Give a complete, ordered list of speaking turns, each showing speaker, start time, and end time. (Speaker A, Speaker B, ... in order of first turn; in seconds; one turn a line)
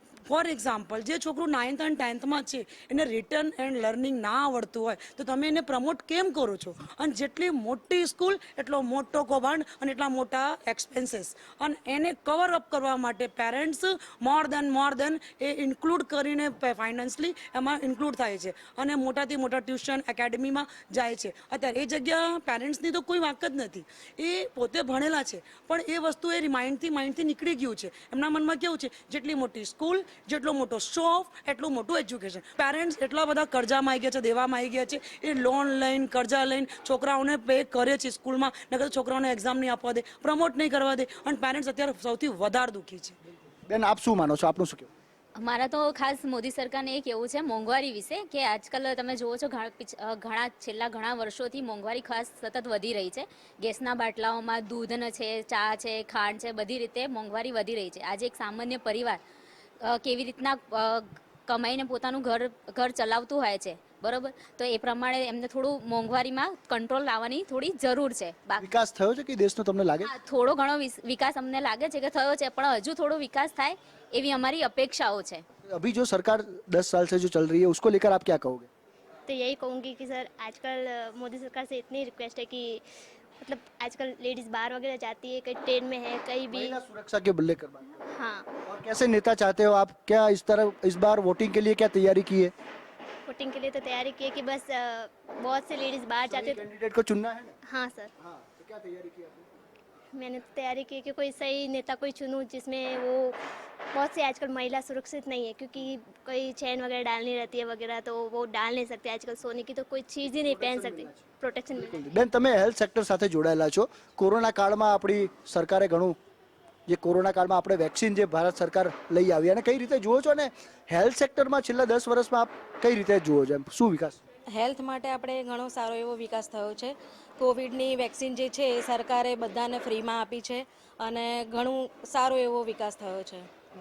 Speaker A: 0.2-43.1
Speaker B: 43.7-44.9
Speaker C: 45.4-59.2
Speaker C: 59.9-68.6
Speaker B: 68.6-70.1
Speaker C: 70.0-75.4
Speaker B: 75.7-78.7
Speaker D: 79.3-82.8
Speaker D: 83.4-86.8
Speaker B: 86.5-88.0
Speaker D: 88.1-88.5
Speaker B: 88.6-92.5
Speaker D: 93.2-96.6
Speaker B: 96.2-97.5
Speaker D: 97.7-98.1
Speaker B: 98.2-99.5
Speaker D: 100.1-103.4
Speaker D: 103.9-112.0
Speaker B: 110.2-116.2
Speaker B: 116.9-124.2
Speaker E: 124.5-133.5